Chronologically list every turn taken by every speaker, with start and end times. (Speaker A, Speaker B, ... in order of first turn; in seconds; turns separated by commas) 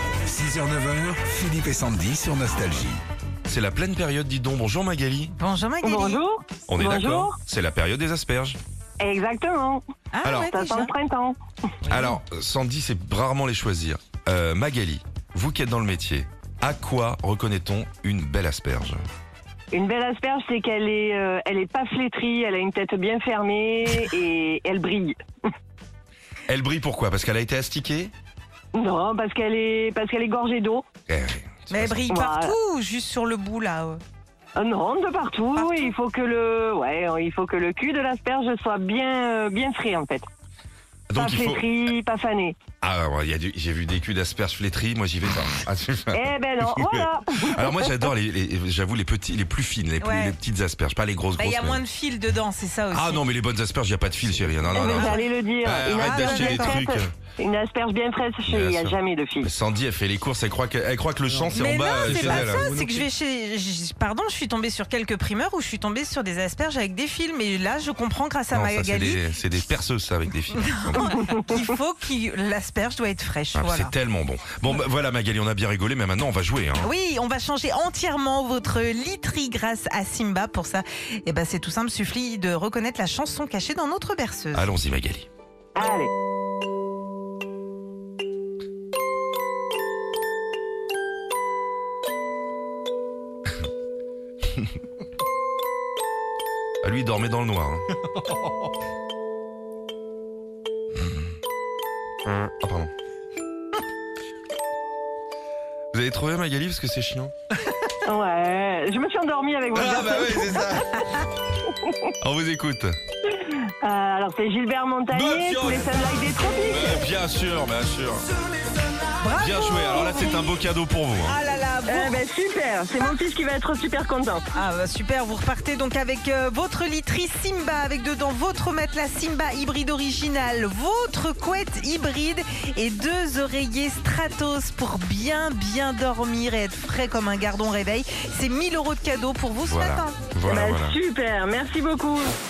Speaker A: 0.2-3.0, Speaker B: 3.5-5.3, Speaker C: 5.4-6.2, Speaker D: 5.8-7.3, Speaker B: 6.7-8.6, Speaker D: 9.0-9.8, Speaker C: 10.1-10.9, Speaker B: 10.2-10.5, Speaker D: 10.5-11.4, Speaker C: 11.8-12.2, Speaker B: 11.9-19.0, Speaker D: 19.7-25.2, Speaker B: 26.5-28.1, Speaker D: 28.7-30.9, Speaker B: 31.1-32.1, Speaker C: 31.7-34.0, Speaker D: 32.1-32.5, Speaker D: 34.6-40.2, Speaker C: 35.5-35.9, Speaker B: 41.1-41.7, Speaker D: 41.1-42.6, Speaker B: 42.8-51.8, Speaker D: 46.1-47.9, Speaker C: 50.0-50.4, Speaker C: 51.4-53.2, Speaker B: 52.9-57.1, Speaker C: 54.8-55.3, Speaker D: 54.8-59.5, Speaker C: 55.9-56.8, Speaker B: 58.5-63.0, Speaker C: 61.5-69.2, Speaker A: 62.0-62.9, Speaker B: 68.5-71.3, Speaker C: 70.5-73.9, Speaker B: 73.5-76.9, Speaker C: 76.8-84.7, Speaker B: 84.5-85.3, Speaker D: 85.8-86.1, Speaker B: 96.8-97.9, Speaker B: 102.3-102.9, Speaker B: 105.9-107.3, Speaker D: 108.1-110.6, Speaker B: 109.8-111.1, Speaker B: 112.2-113.0, Speaker D: 113.8-117.1, Speaker B: 115.1-116.0, Speaker B: 116.7-118.3, Speaker C: 119.2-120.5, Speaker B: 119.3-121.4, Speaker C: 121.3-122.2, Speaker D: 121.9-124.4, Speaker C: 124.5-140.2, Speaker B: 139.6-141.0, Speaker D: 140.5-142.3